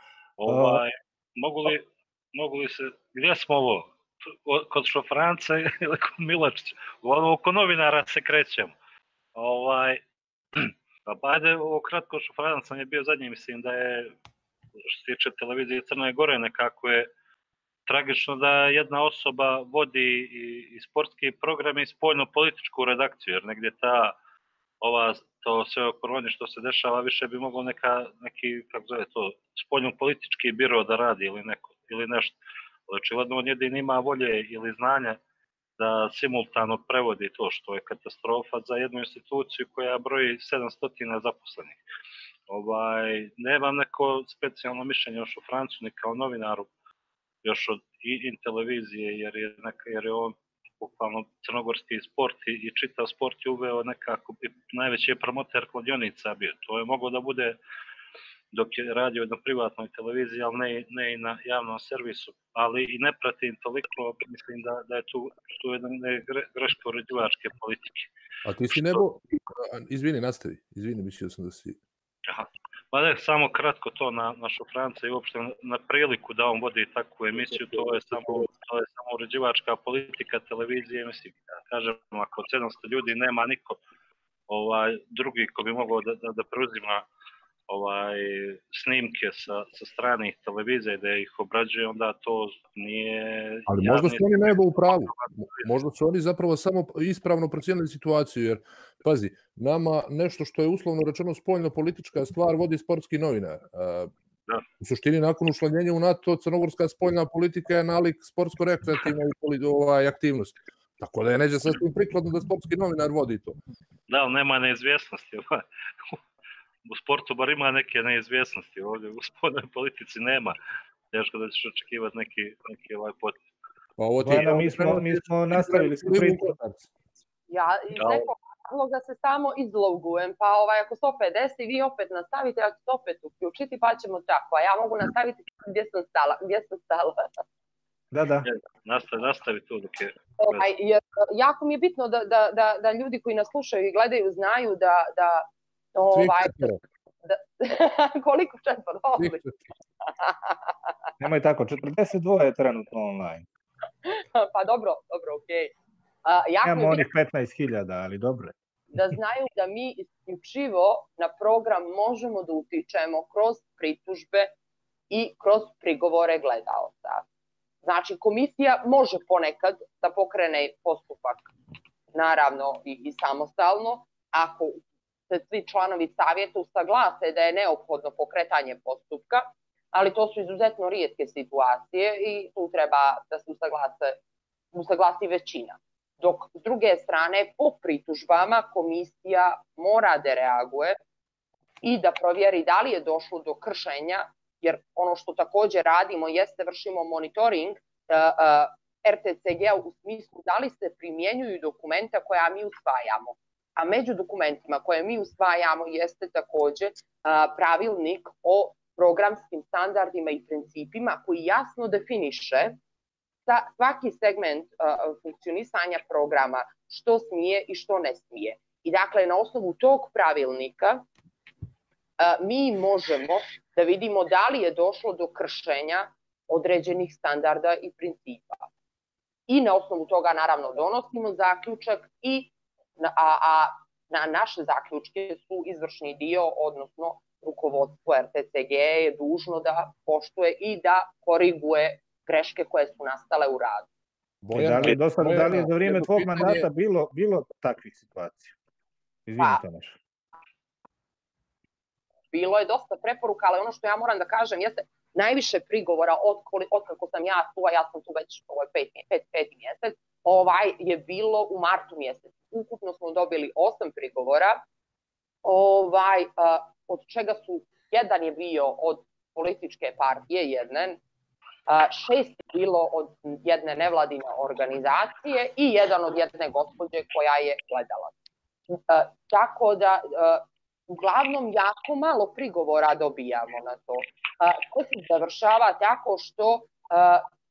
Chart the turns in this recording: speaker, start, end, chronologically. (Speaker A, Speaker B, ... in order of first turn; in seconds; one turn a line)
Speaker A: 0.4-8.7
Speaker B: 0.5-0.8
Speaker A: 9.3-10.0
Speaker A: 10.6-14.1
Speaker A: 14.9-17.1
Speaker A: 17.9-24.1
Speaker A: 24.8-32.4
Speaker A: 32.9-35.2
Speaker A: 35.8-41.8
Speaker A: 42.5-46.7
Speaker A: 47.4-57.6
Speaker A: 58.5-68.1
Speaker C: 68.5-71.8
Speaker A: 72.3-83.8
Speaker A: 84.5-87.1
Speaker A: 87.7-94.4
Speaker C: 93.7-104.1
Speaker A: 94.9-95.7
Speaker C: 104.8-113.6
Speaker A: 114.1-116.2
Speaker A: 116.8-120.6
Speaker A: 121.1-123.4
Speaker C: 124.0-126.9
Speaker B: 124.2-126.5
Speaker D: 127.5-137.3
Speaker B: 138.1-138.5
Speaker A: 138.4-140.6
Speaker D: 140.4-149.4
Speaker C: 146.1-146.8
Speaker C: 149.2-149.6
Speaker D: 150.1-150.7
Speaker B: 151.2-153.4
Speaker D: 154.0-155.7
Speaker D: 156.2-157.0
Speaker B: 156.6-158.5
Speaker D: 158.9-164.5
Speaker D: 165.1-167.2
Speaker D: 167.8-171.5
Speaker D: 172.1-184.2
Speaker D: 184.7-191.0
Speaker D: 191.8-212.8
Speaker D: 213.5-221.0
Speaker D: 222.2-228.7
Speaker D: 229.5-243.9
Speaker C: 244.4-246.7
Speaker B: 244.5-248.5
Speaker B: 249.3-250.0
Speaker D: 252.3-264.6
Speaker D: 265.4-271.0
Speaker D: 271.7-278.1
Speaker D: 278.7-287.2